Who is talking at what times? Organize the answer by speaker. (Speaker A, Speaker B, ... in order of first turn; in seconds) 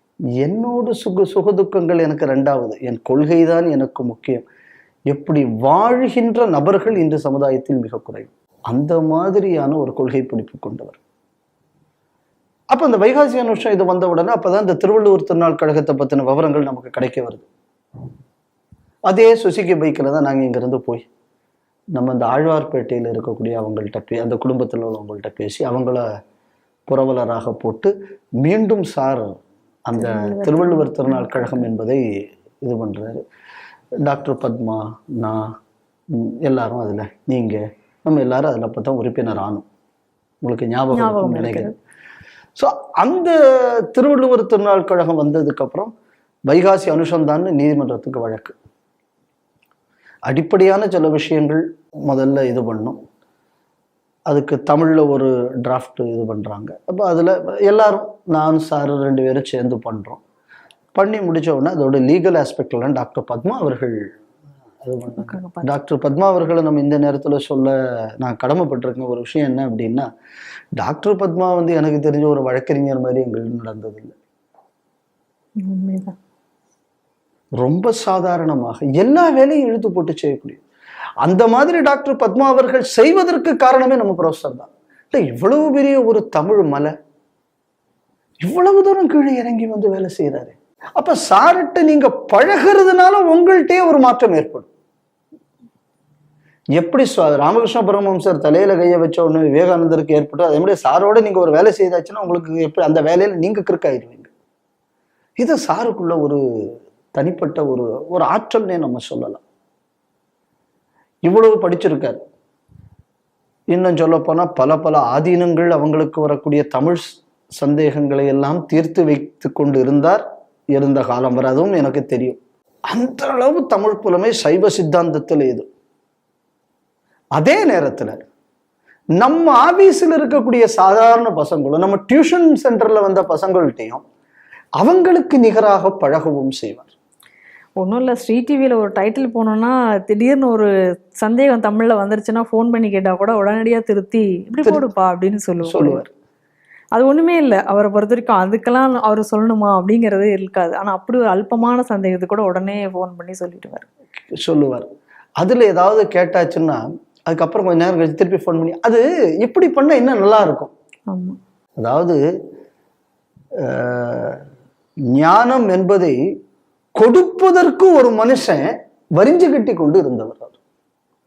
Speaker A: 0.4-4.5, 5.1-11.0, 12.7-17.5, 19.1-21.1, 21.9-26.0, 26.9-32.0, 32.6-33.2, 34.0-35.5, 36.1-39.6, 40.4-41.7, 42.6-43.4, 43.9-45.9, 46.5-48.5, 50.3-53.0, 54.3-60.2, 61.0-64.0, 64.8-70.0, 70.8-74.2, 77.6-80.6, 81.2-86.9, 88.4-94.7, 96.8-104.3, 105.4-106.4, 107.1-109.4, 111.3-112.2, 113.7-120.2, 120.7-125.7, 127.3-128.2, 129.2-134.0, 134.8-136.9, 145.6-146.0, 154.4-154.9, 155.4-160.7, 161.8-162.2, 163.6-164.4, 165.1-166.2, 167.0-170.6
Speaker B: 29.9-31.7, 40.9-41.7, 65.2-65.7, 75.6-76.1, 137.8-140.7, 141.2-146.1, 146.9-153.9, 161.1-161.4